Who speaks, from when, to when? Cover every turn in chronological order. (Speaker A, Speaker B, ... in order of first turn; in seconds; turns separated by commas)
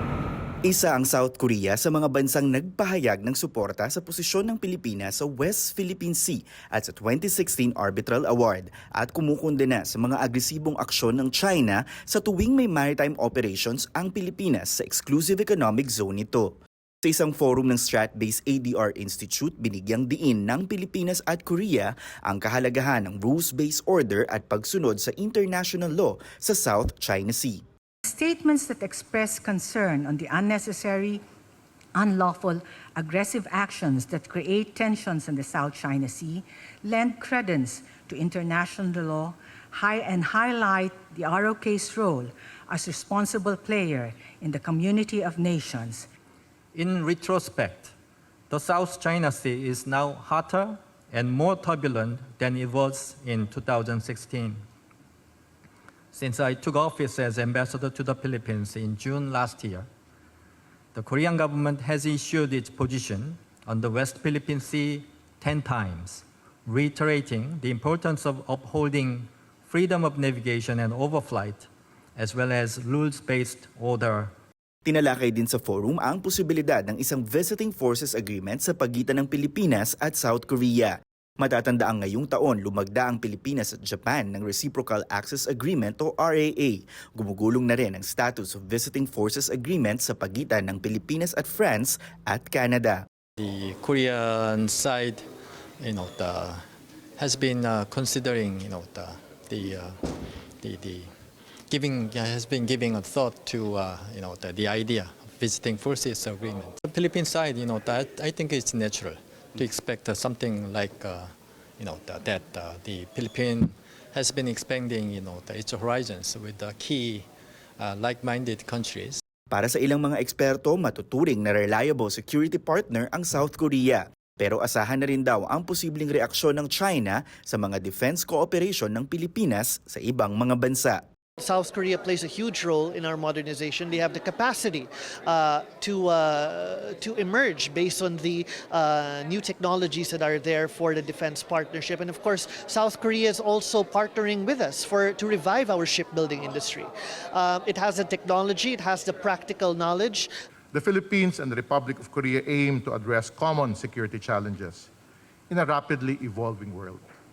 Speaker A: 0.7-27.6, Speaker B: 28.1-31.2, Speaker B: 31.9-46.1, Speaker C: 46.7-47.9, Speaker C: 48.5-54.6, Speaker C: 56.1-59.9, Speaker C: 61.0-74.3, Speaker A: 74.9-93.0, Speaker D: 93.4-95.2, Speaker D: 95.8-96.6, Speaker D: 97.2-101.1, Speaker D: 101.7-117.3, Speaker D: 117.8-119.2, Speaker A: 119.5-131.0, Speaker E: 131.4-150.3, Speaker F: 150.7-154.9, Speaker F: 155.5-157.0